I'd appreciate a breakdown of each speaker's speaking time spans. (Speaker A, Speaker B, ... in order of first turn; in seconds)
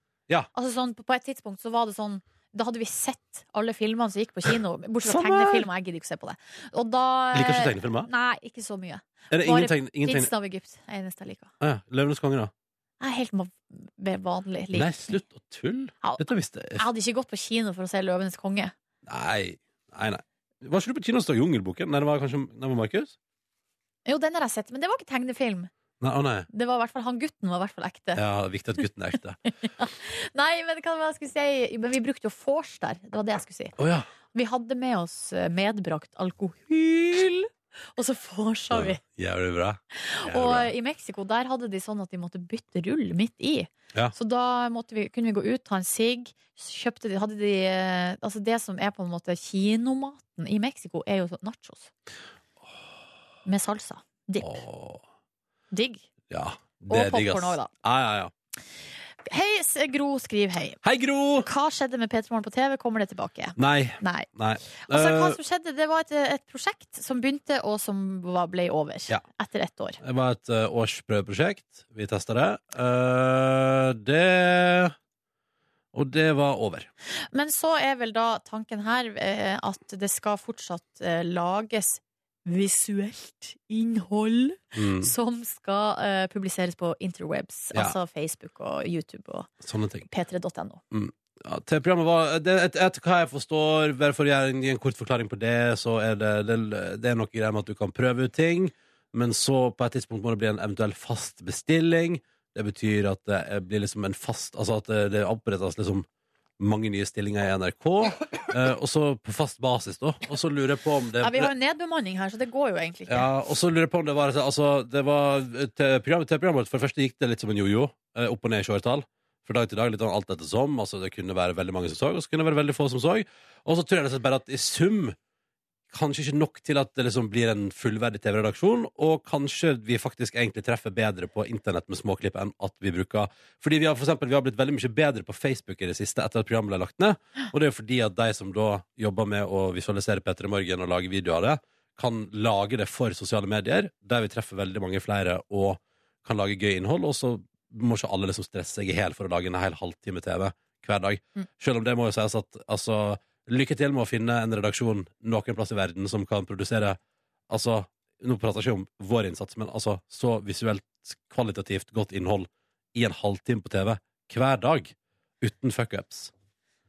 Speaker A: 0.5-11.5, 13.0-15.2, 16.0-18.7, 24.1-25.7, 26.5-28.2, 29.6-33.7, 34.3-39.0, 40.0-51.9, 53.5-54.6, 55.7-56.0, 56.9-57.7, 59.2-60.8, 61.4-70.0, 77.3-89.5, 90.0-90.8, 111.2-113.3
Speaker B: 5.0-5.7, 7.3-8.1, 9.3-10.3, 11.6-12.5, 14.7-16.8, 19.0-23.1, 26.0-26.5, 28.1-29.4, 33.8-34.1, 38.7-40.7, 54.4-55.0, 56.3-58.3, 60.8-61.5, 63.6-65.4, 70.0-74.9, 75.9-76.9, 84.7-85.1, 89.6-90.0, 90.9-106.0, 106.6-111.5, 113.1-125.2, 125.9-157.0, 157.5-166.3